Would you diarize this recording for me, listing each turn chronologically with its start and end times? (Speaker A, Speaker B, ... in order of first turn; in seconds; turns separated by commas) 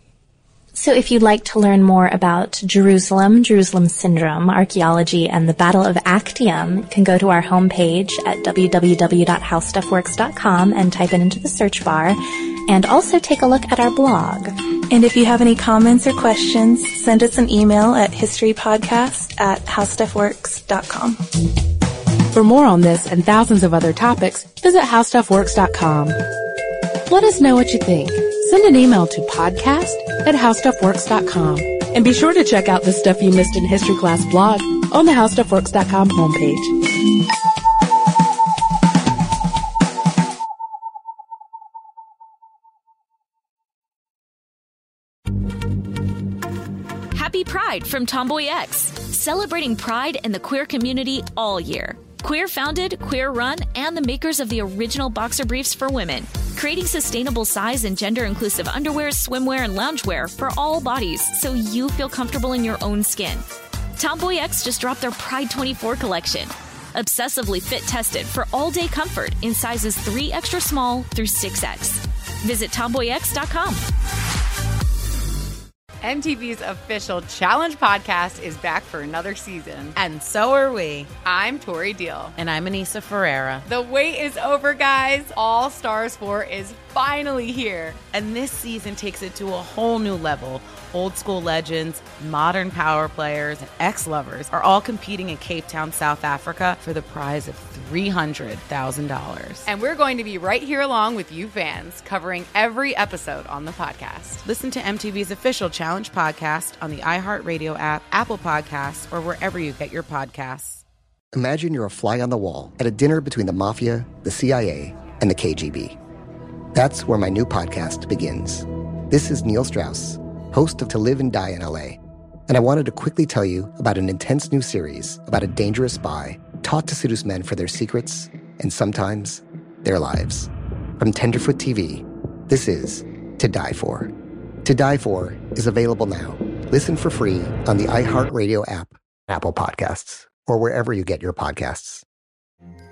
Speaker A: 0.7-14.5, Speaker B: 14.9-21.2, Speaker C: 22.3-26.2, Speaker C: 27.1-36.7, Speaker D: 47.1-73.8, Speaker E: 76.0-80.0, Speaker F: 79.9-81.2, Speaker E: 81.2-82.4, Speaker F: 82.3-83.7, Speaker E: 83.7-88.0, Speaker F: 88.1-99.7, Speaker E: 99.7-104.4, Speaker F: 104.4-110.8, Speaker G: 111.3-116.0, Speaker G: 116.7-134.1, Speaker G: 134.6-142.0